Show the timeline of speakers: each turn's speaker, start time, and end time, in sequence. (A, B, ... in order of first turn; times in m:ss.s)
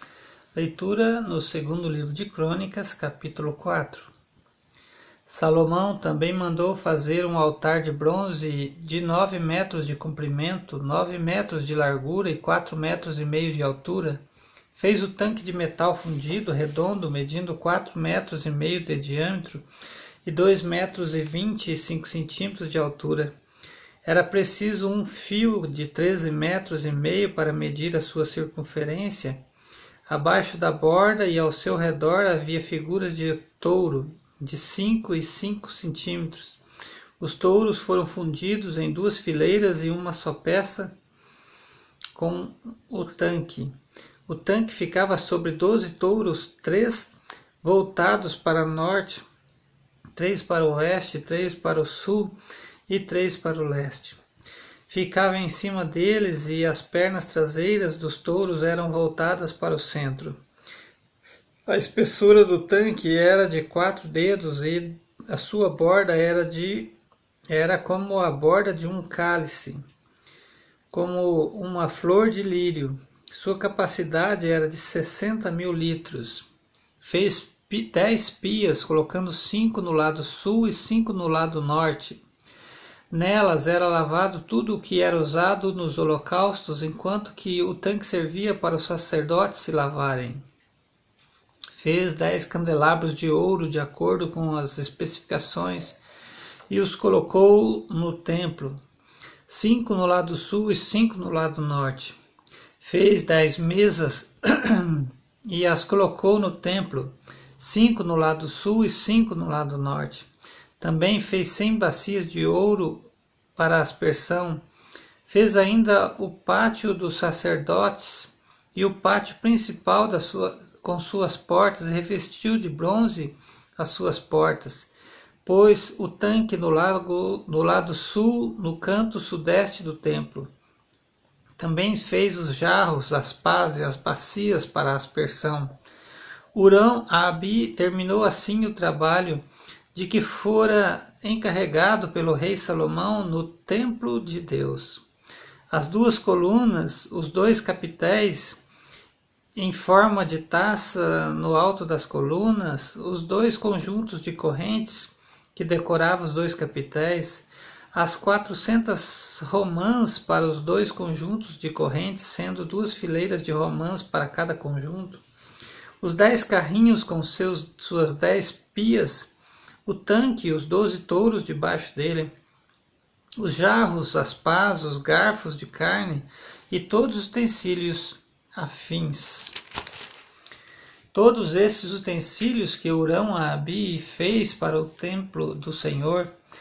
0:00.5-0:04.1 A
0:05.2-0:14.2 A
0:14.7-0:19.6 A
0:20.2-0:23.3 A
0:24.0-0:29.4 A
0:30.1-0:36.6 A
0:37.2-0:40.9 A
0:42.2-0:43.7 A
0:44.3-0:49.2 A
0:50.2-0:52.3 A
0:52.9-0:54.2 A
0:54.9-1:00.4 A
1:01.7-1:06.9 A
1:07.5-1:09.8 A
1:10.9-1:16.4 A
1:17.0-1:22.2 A
1:23.1-1:30.4 A
1:31.7-1:36.0 A
1:36.7-1:38.8 A
1:39.5-1:42.2 A
1:42.8-1:50.3 A
1:50.8-1:54.6 A
1:55.2-2:04.9 A
2:05.4-2:10.5 A
2:11.6-2:15.7 A
2:16.5-2:19.4 A
2:19.9-2:25.0 A
2:25.7-2:28.6 A
2:29.5-2:45.2 A
2:46.0-2:49.3 A
2:49.8-2:52.3 A
2:53.4-2:59.6 A
3:01.1-3:06.3 A